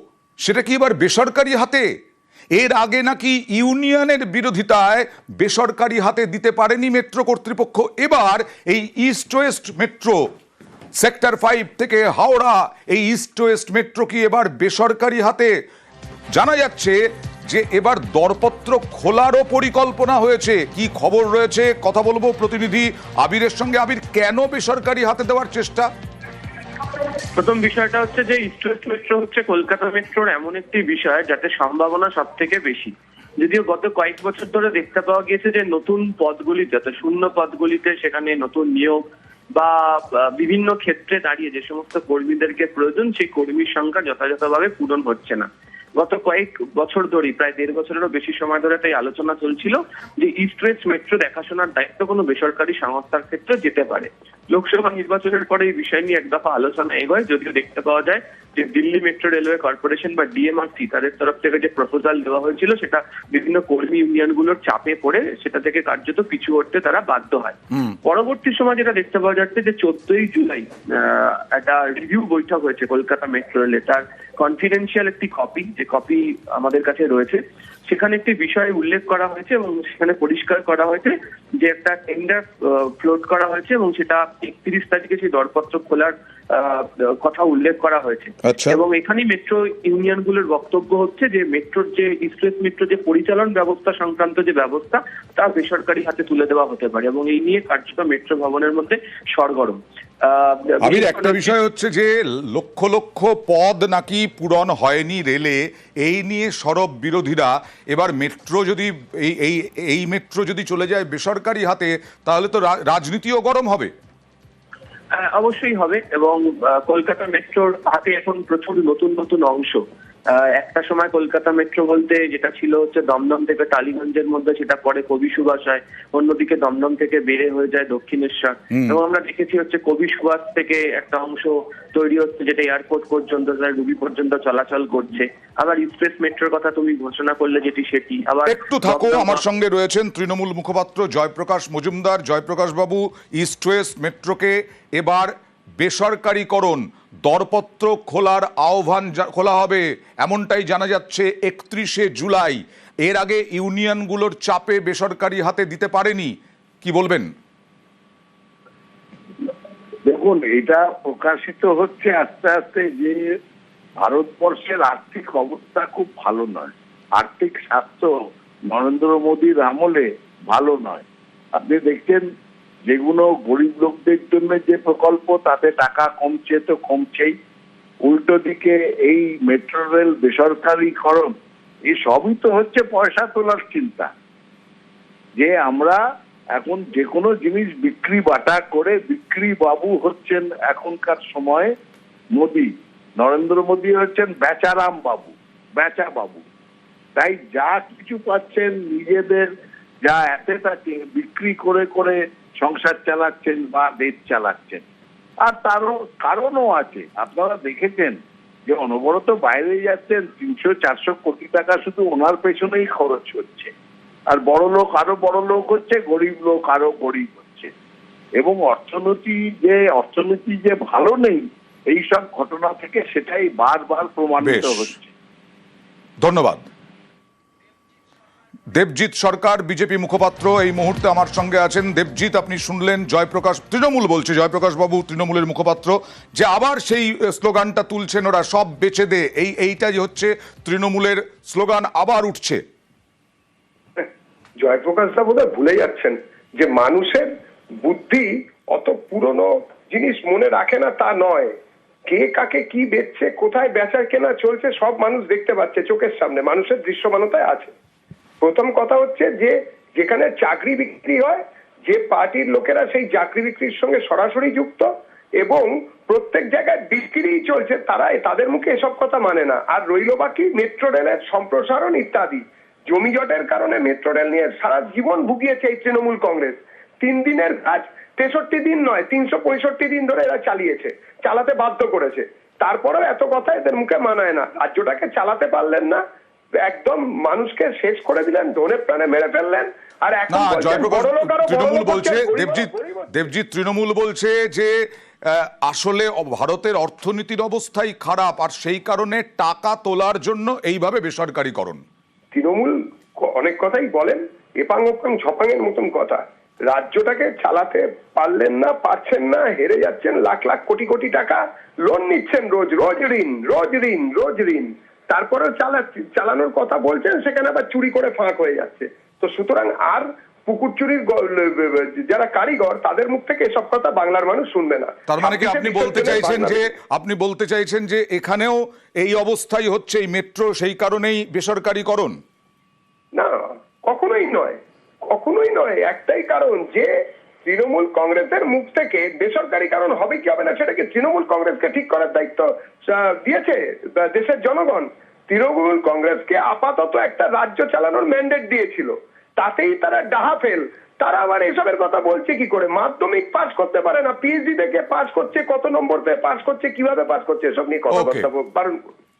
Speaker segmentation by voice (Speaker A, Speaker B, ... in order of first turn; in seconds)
Speaker A: 0.4-1.9, 2.5-10.2, 11.0-15.5, 16.3-25.9, 88.5-88.8, 100.8-113.9, 138.5-157.3, 224.4-224.9, 226.2-226.7, 228.7-242.6, 290.3-294.7, 295.3-301.8, 325.1-332.1, 357.9-358.3
Speaker B: 27.4-39.0, 39.5-101.6, 115.1-139.4
Speaker C: 160.0-163.3, 164.0-168.1, 168.7-172.3, 172.9-177.4, 178.0-181.3, 181.9-184.1, 185.4-186.0, 186.6-191.7, 192.3-196.5, 197.2-199.5, 200.0-204.8, 205.4-213.7, 214.3-217.7, 218.4-225.1
Speaker D: 244.6-247.3, 247.8-251.5, 252.1-257.7, 258.4-264.9, 265.4-286.0, 286.6-293.3, 302.3-326.7, 333.1-336.9, 337.5-358.9